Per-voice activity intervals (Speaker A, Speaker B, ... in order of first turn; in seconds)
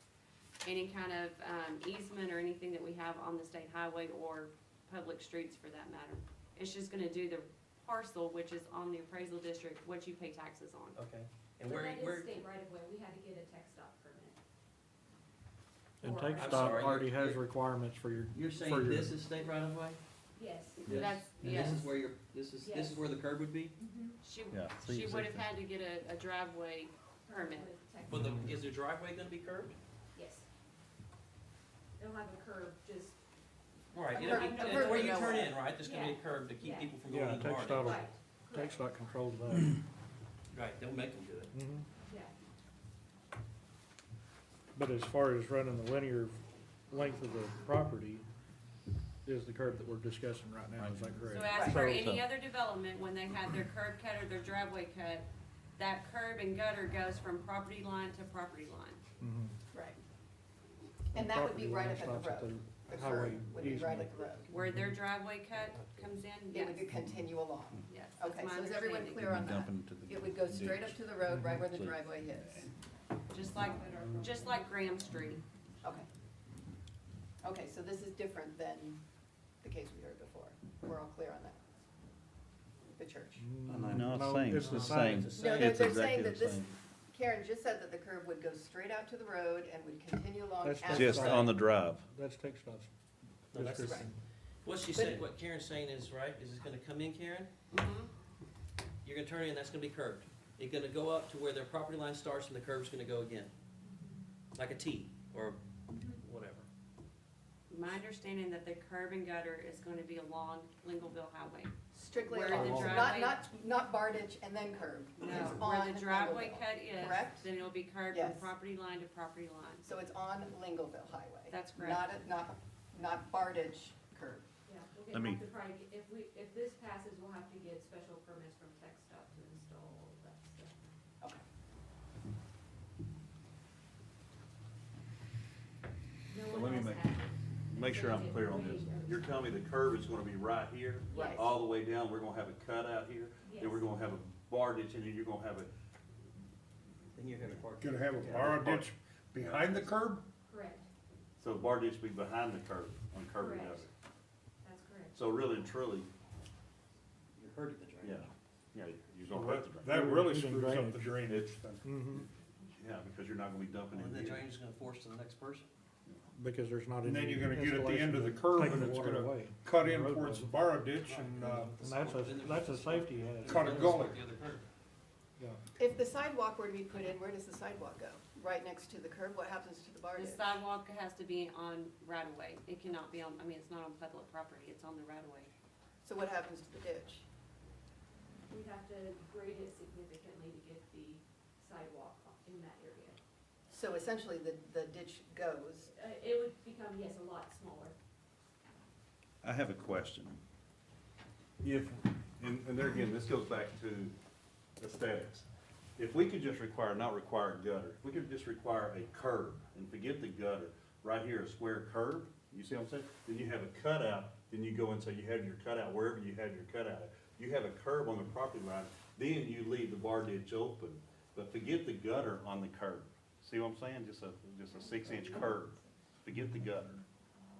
Speaker A: 0.6-11.0, 20.9-21.8, 24.2-27.7, 51.3-59.0, 64.5-66.9, 67.9-69.4, 73.3-75.4, 97.7-98.1, 107.7-113.4, 115.2-119.9, 121.5-122.2, 180.1-185.5
Speaker B: 10.9-12.4, 16.3-17.4, 18.3-20.0, 20.9-23.7, 28.1-29.8, 33.9-38.0, 40.5-41.5, 84.6-86.0, 93.5-94.0, 94.6-97.5, 99.0-103.5, 104.5-106.7, 112.5-113.1, 147.1-148.9, 157.4-158.3, 163.9-165.7, 171.0-174.6
Speaker C: 11.6-14.3, 16.0-16.6, 20.4-20.9, 22.6-23.1, 23.8-24.2, 27.3-28.4, 30.1-30.5, 32.0-33.1, 34.1-37.0, 37.7-39.0, 42.0-42.3, 124.7-130.7, 136.3-139.3, 141.1-141.4, 143.4-143.9, 150.4-150.9, 153.4-153.9, 154.6-155.2, 188.5-193.2, 195.9-197.9
Speaker D: 16.0-19.2, 37.0-39.8, 41.5-41.9, 44.7-48.2, 49.2-52.1, 59.2-59.5, 61.1-64.9, 83.4-85.3, 90.6-92.9, 93.5-94.2, 159.8-161.2, 161.8-162.2, 166.3-170.5, 171.8-174.1
Speaker E: 24.5-25.5, 50.8-51.1, 51.7-52.2, 69.2-72.7, 83.7-86.7, 90.9-92.0, 125.1-125.4, 136.5-137.1, 137.7-145.7, 149.3-149.9, 151.4-153.9, 155.1-156.1, 158.0-159.9, 161.3-164.4, 199.4-200.4, 201.6-204.1, 204.8-227.0
Speaker F: 34.1-35.6, 51.5-51.9, 59.7-60.0, 61.1-64.5, 66.5-72.7, 77.4-79.0, 79.6-81.6, 82.9-83.5, 85.3-91.5, 93.8-94.1, 94.9-95.2, 111.9-117.5, 118.1-118.5, 119.8-124.5, 141.1-141.5, 175.8-180.6, 186.0-187.2, 193.7-195.9
Speaker G: 147.8-150.3, 159.3-161.9, 167.0-171.8, 173.4-174.2